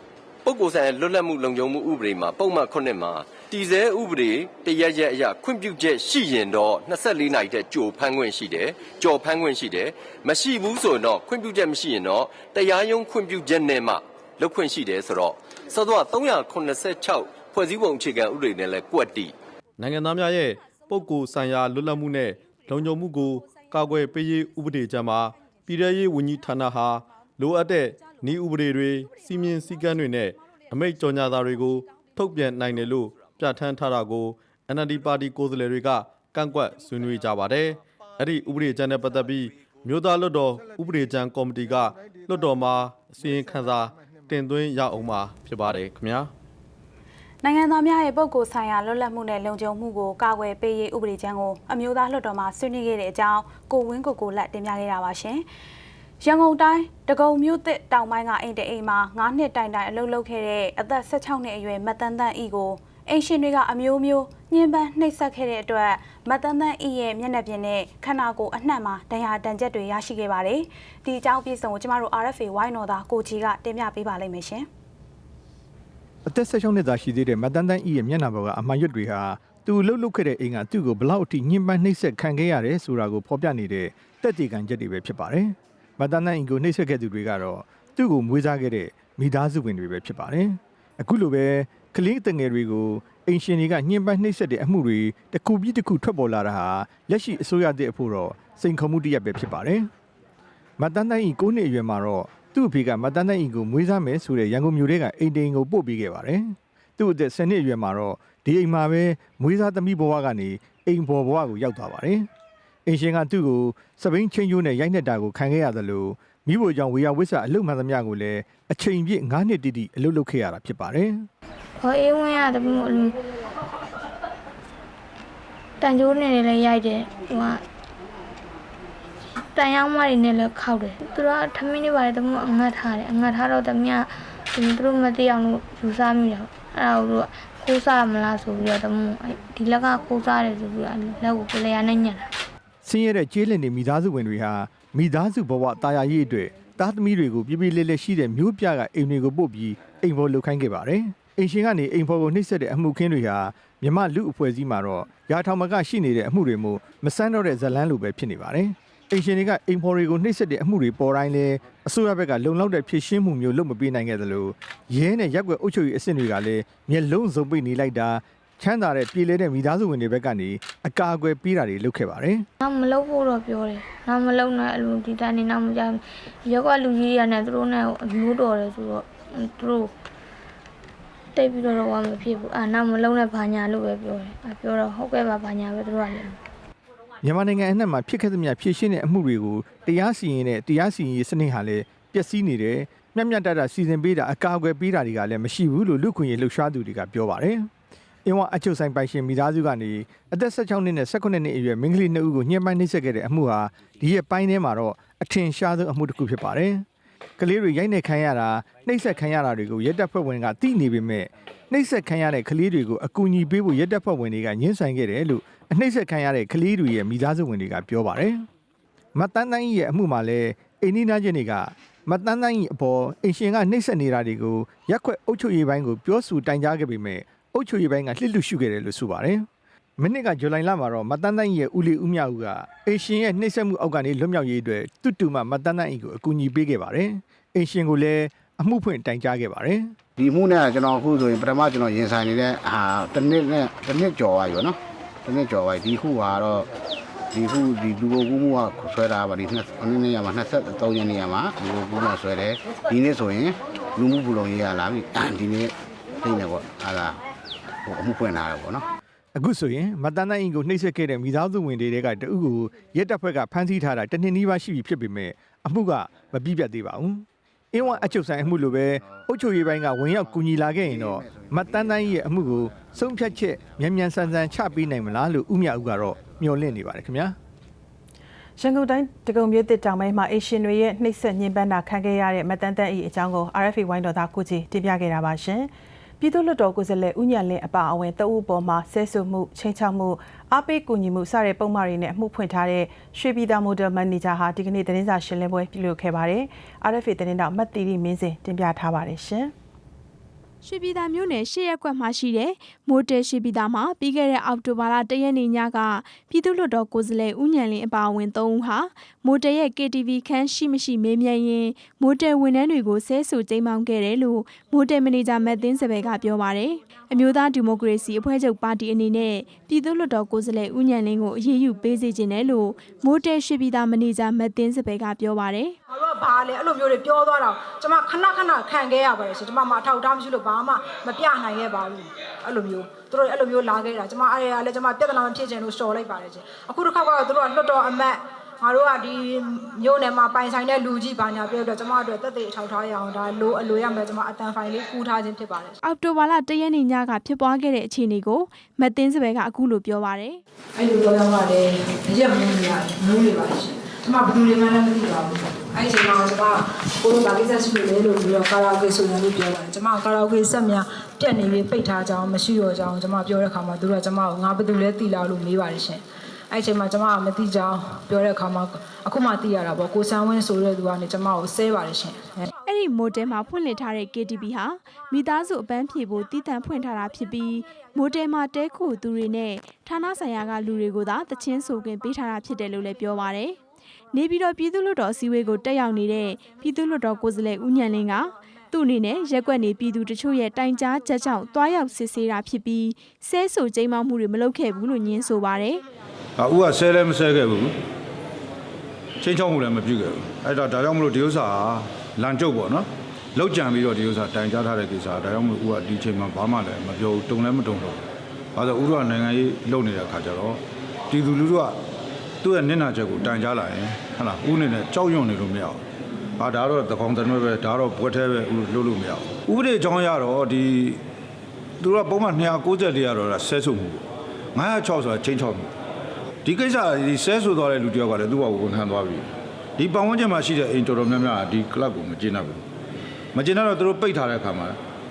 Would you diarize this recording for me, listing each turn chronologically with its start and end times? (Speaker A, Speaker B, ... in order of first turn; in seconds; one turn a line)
Speaker A: 0.4-19.3
Speaker B: 19.8-46.3
Speaker C: 47.4-55.4
Speaker C: 56.2-74.7
Speaker D: 76.3-99.9
Speaker D: 100.8-112.2
Speaker D: 112.9-121.3
Speaker E: 121.8-123.1
Speaker E: 125.8-127.6
Speaker E: 129.5-142.2
Speaker D: 142.8-172.4
Speaker E: 172.6-179.9
Speaker E: 181.3-186.4
Speaker D: 187.2-197.7
Speaker D: 198.2-206.8
Speaker D: 207.4-218.4
Speaker D: 219.2-229.4
Speaker D: 230.0-239.9
Speaker F: 240.2-246.7
Speaker F: 247.3-257.2
Speaker F: 257.8-258.8
Speaker D: 259.4-277.4
Speaker F: 270.2-273.7
Speaker F: 274.4-274.9
Speaker F: 275.9-276.2
Speaker G: 278.6-299.5
Speaker H: 300.6-325.8
Speaker I: 325.9-345.8
Speaker H: 345.8-350.4
Speaker I: 350.8-372.5
Speaker H: 372.6-383.6
Speaker H: 384.1-395.8
Speaker J: 396.4-397.7
Speaker J: 399.2-408.0
Speaker J: 408.5-411.8
Speaker J: 412.4-415.8
Speaker J: 416.4-421.0
Speaker J: 421.8-425.7
Speaker J: 426.4-432.6
Speaker J: 433.3-434.8